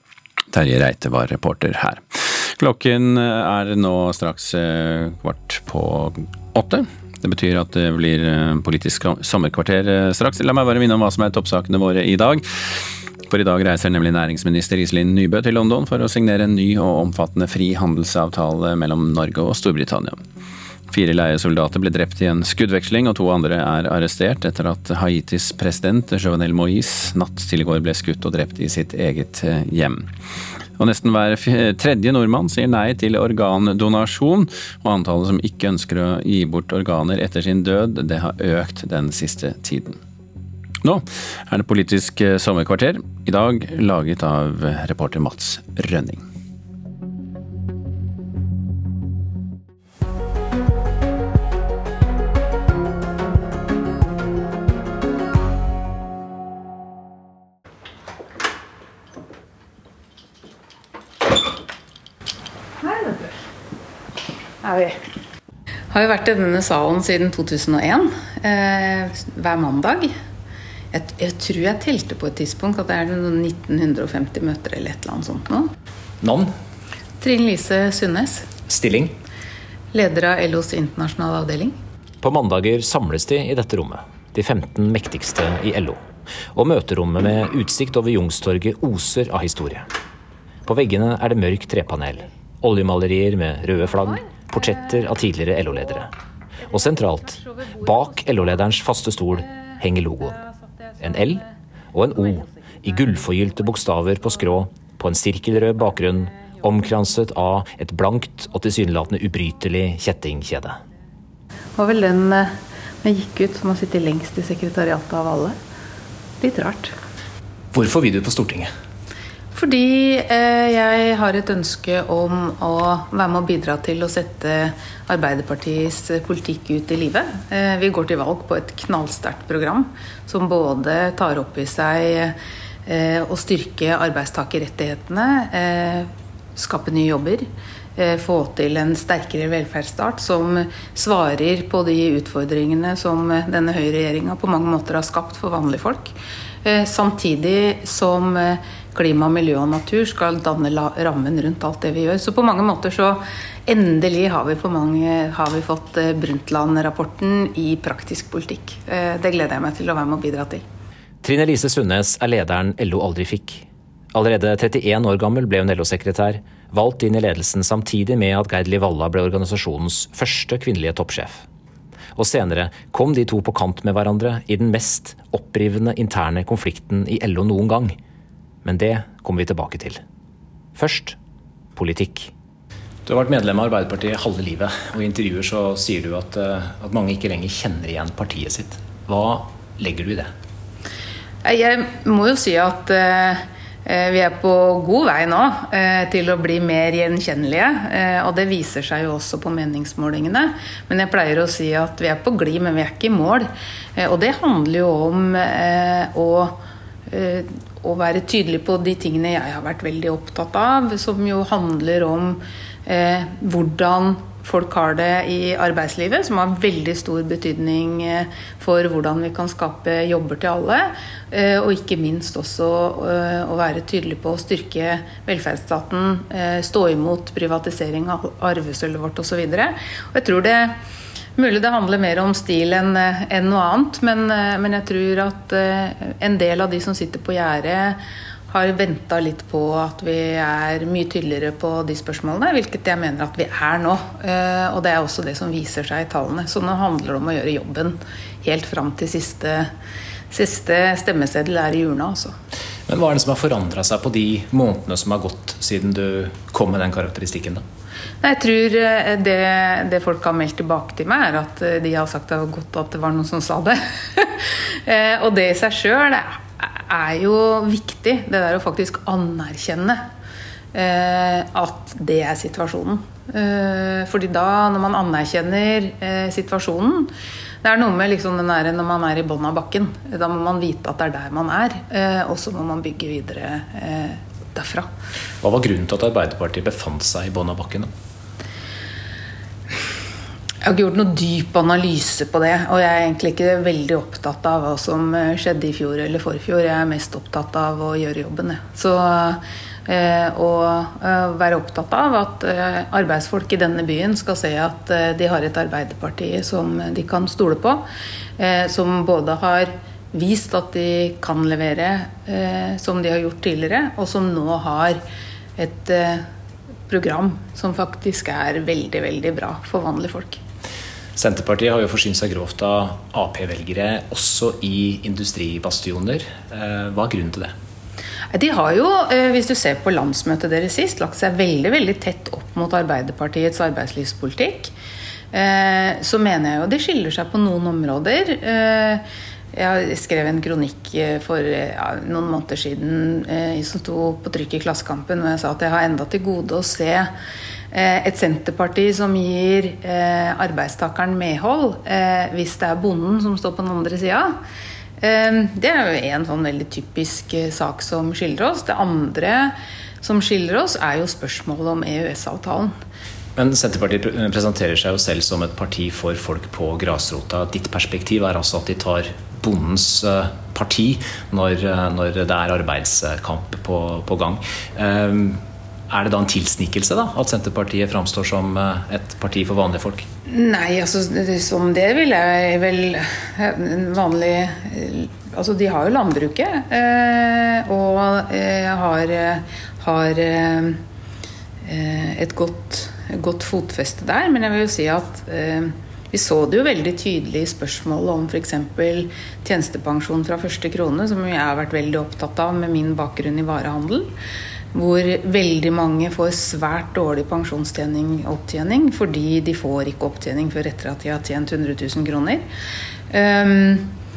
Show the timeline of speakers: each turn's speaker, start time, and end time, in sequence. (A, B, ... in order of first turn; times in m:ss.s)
0:00.5-0:12.4 A
0:13.3-0:20.2 A
0:20.9-0:30.1 A
0:30.8-0:40.0 A
0:40.8-0:46.2 A
1:05.9-1:10.1 B
1:10.9-1:15.7 B
1:16.2-1:16.5 C
1:17.2-1:18.5 B
1:18.6-1:19.1 C
1:19.9-1:21.8 B
1:22.2-1:26.0 C
1:26.5-1:29.9 C
1:30.6-1:36.1 C
1:36.7-1:40.4 C
1:41.0-1:50.8 C
1:51.8-1:55.6 B
1:56.4-1:56.9 B
1:57.7-1:58.7 C
1:59.5-2:40.6 B
2:41.2-2:51.4 C
2:52.2-2:58.0 C
2:58.6-3:00.0 C
3:00.8-3:01.2 C
3:01.8-3:02.3 C
3:03.1-3:10.3 C
3:11.4-3:50.8 B
3:51.4-4:09.7 B
4:10.3-4:12.3 B
4:12.9-4:17.6 C
4:18.2-4:30.1 B
4:30.7-4:37.1 B
4:37.6-4:44.9 B
4:45.4-4:47.9 C
4:50.6-5:07.8 B
5:08.4-5:15.0 B
5:15.6-5:16.2 B
5:16.9-5:20.4 B
5:21.2-5:27.5 C
5:28.3-5:34.7 B
5:35.3-5:47.1 B
5:47.7-5:54.4 B
5:55.0-6:02.7 B
6:03.4-6:20.0 C
6:20.3-6:30.8 B
6:31.6-6:44.1 B
6:44.7-6:52.4 B
6:53.1-6:53.9 B